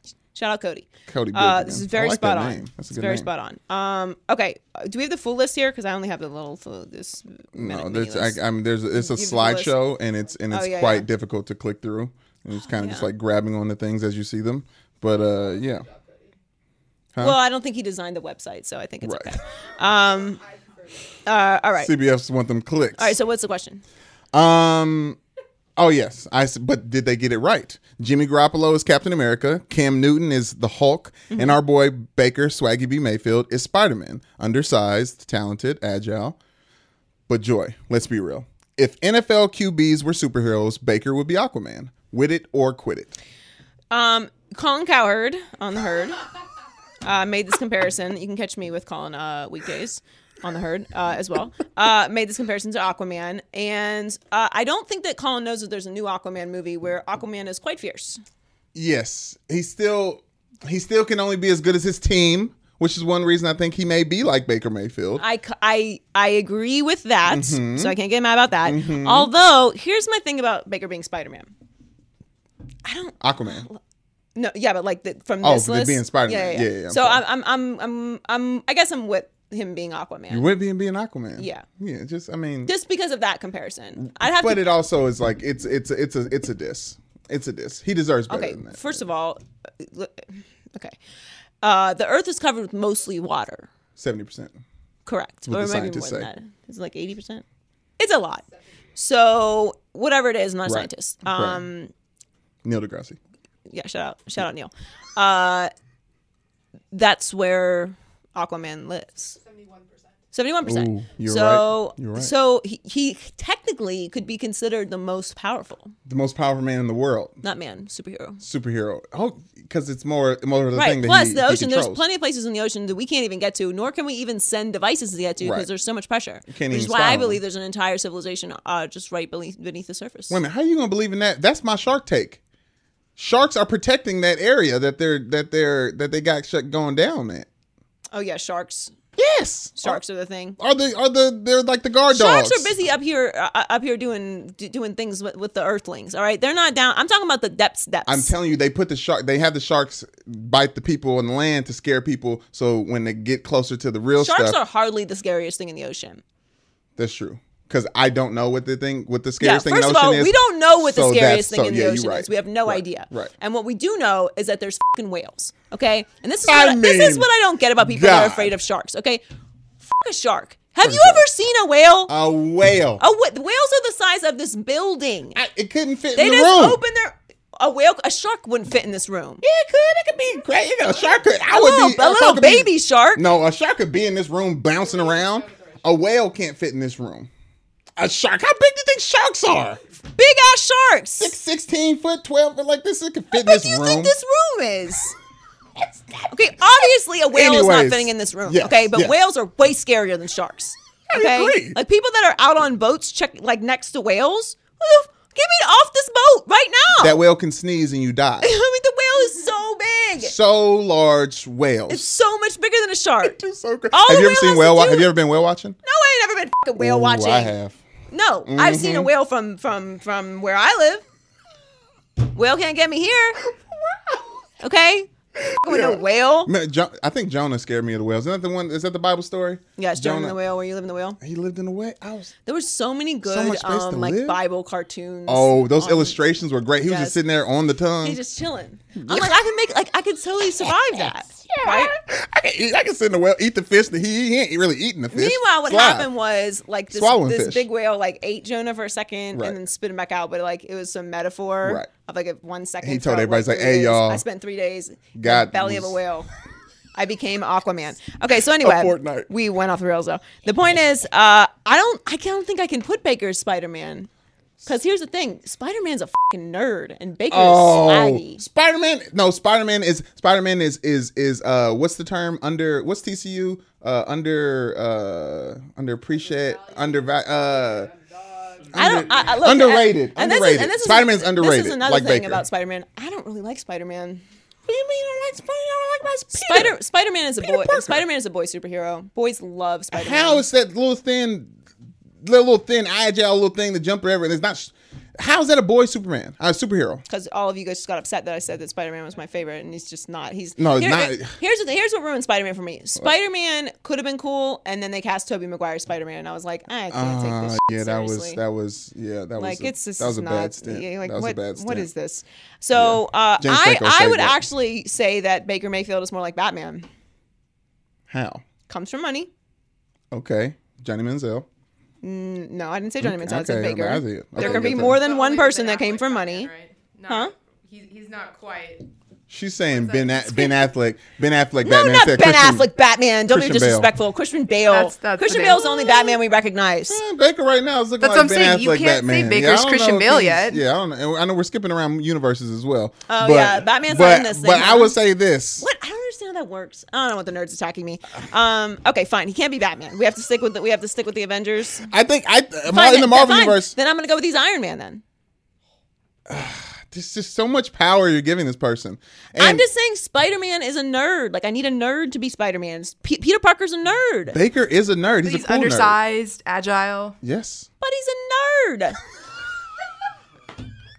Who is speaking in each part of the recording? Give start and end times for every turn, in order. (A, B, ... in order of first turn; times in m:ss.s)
0:00.4-0:08.4 A
0:01.1-0:03.3 B
0:07.5-0:15.9 B
0:08.9-0:09.8 A
0:10.5-0:11.1 A
0:12.7-0:13.1 A
0:17.2-0:20.4 A
0:19.0-0:19.3 B
0:21.2-0:21.9 A
0:21.8-0:23.2 B
0:23.0-0:23.8 A
0:24.3-0:25.2 B
0:25.8-0:36.4 B
0:31.3-0:31.6 A
0:37.3-0:43.2 B
0:43.9-0:46.2 A
0:47.0-0:58.2 A
0:58.7-1:05.2 B
1:05.2-1:11.5 A
1:07.3-1:07.9 B
1:08.6-1:09.3 B
1:12.8-1:13.8 A
1:13.2-1:13.7 B
1:14.4-1:20.5 A
1:15.4-1:17.2 B
1:20.3-1:22.7 B
1:21.4-1:21.7 A
1:22.7-1:24.7 A
1:24.0-1:29.0 B
1:28.3-1:30.9 A
1:31.6-1:33.7 A
1:34.0-1:34.6 B
1:35.1-1:37.4 A
1:35.5-1:36.3 B
1:38.0-1:38.4 A
1:39.0-1:41.9 A
1:40.7-1:41.6 B
1:42.6-1:43.2 B
1:43.7-1:45.7 A
1:46.9-1:49.4 A
1:49.4-1:50.1 C
1:50.3-1:55.9 A
1:50.6-1:52.3 B
1:56.1-1:57.4 B
1:57.4-1:58.4 A
1:58.4-2:02.0 B
2:00.7-2:10.4 A
2:05.4-2:05.7 B
2:06.5-2:07.4 B
2:10.3-2:12.4 B
2:13.2-2:17.5 B
2:18.1-2:18.9 A
2:19.2-2:20.0 B
2:19.8-2:20.6 A
2:20.6-2:22.8 B
2:22.1-2:28.3 A
2:28.1-2:34.6 B
2:34.2-2:36.2 A
2:37.0-2:43.3 B
2:39.4-2:49.2 A
2:46.5-2:47.3 B
2:47.8-2:48.5 B
2:49.8-2:52.1 A
2:50.8-2:51.2 B
2:52.1-2:53.0 B
2:53.0-2:55.4 A
2:55.4-2:56.8 B
2:56.2-2:59.4 A
2:59.4-3:07.3 B
3:01.5-3:03.2 A
3:08.0-3:09.8 B
3:10.2-3:11.4 A
3:11.2-3:14.2 B
3:13.3-3:15.2 A
3:15.8-3:16.3 B
3:16.3-3:27.2 A
3:17.3-3:19.1 B
3:21.1-3:21.8 B
3:27.0-3:28.5 B
3:28.4-3:30.3 A
3:30.2-3:32.0 B
3:31.9-3:33.4 A
3:33.2-3:35.8 B
3:33.9-3:35.1 A
3:35.8-3:37.5 A
3:36.8-3:37.8 B
3:38.1-3:41.0 A
3:38.5-3:39.1 B
3:42.3-3:43.4 A
3:44.6-3:46.5 A
3:45.5-3:50.4 B
3:49.8-3:51.2 A
3:51.2-3:52.3 B
3:52.5-3:56.2 A
3:53.3-3:54.4 B
3:55.3-3:58.2 B
3:56.8-3:57.2 A
3:58.0-4:02.0 A
3:59.0-3:59.4 B
4:00.6-4:06.1 B
4:05.1-4:16.3 A
4:06.9-4:07.7 B
4:11.6-4:11.9 B
4:12.8-4:14.2 B
4:15.2-4:16.0 B
4:17.0-4:24.1 A
4:18.6-4:19.3 B
4:24.6-4:28.4 A
4:27.3-4:37.9 B
4:38.7-4:42.4 B
4:38.7-4:44.2 A
4:44.7-4:46.8 B
4:46.3-4:50.5 A
4:47.4-4:48.0 B
4:49.9-4:51.5 B
4:52.2-4:57.0 B
4:57.1-5:08.4 A
5:00.6-5:01.3 B
5:06.9-5:11.9 B
5:09.4-5:16.9 A
5:12.8-5:14.4 B
5:18.1-5:18.4 B
5:18.7-5:19.3 A
5:20.1-5:21.5 B
5:22.0-5:26.5 A
5:23.0-5:25.0 B
5:24.4-5:28.9 C
5:27.1-5:27.3 A
5:29.3-5:32.6 B
5:29.8-5:30.7 C
5:31.6-5:37.0 A
5:33.3-5:33.9 B
5:34.7-5:36.2 C
5:36.9-5:45.7 B
5:38.0-5:40.6 C
5:43.1-5:45.0 A
5:45.6-5:51.9 A
5:51.9-5:53.8 B
5:52.7-5:55.0 A
5:56.3-5:59.6 B
5:59.4-6:04.4 A
6:04.3-6:06.0 B
6:05.2-6:07.2 C
6:07.2-6:07.7 B
6:07.8-6:09.0 A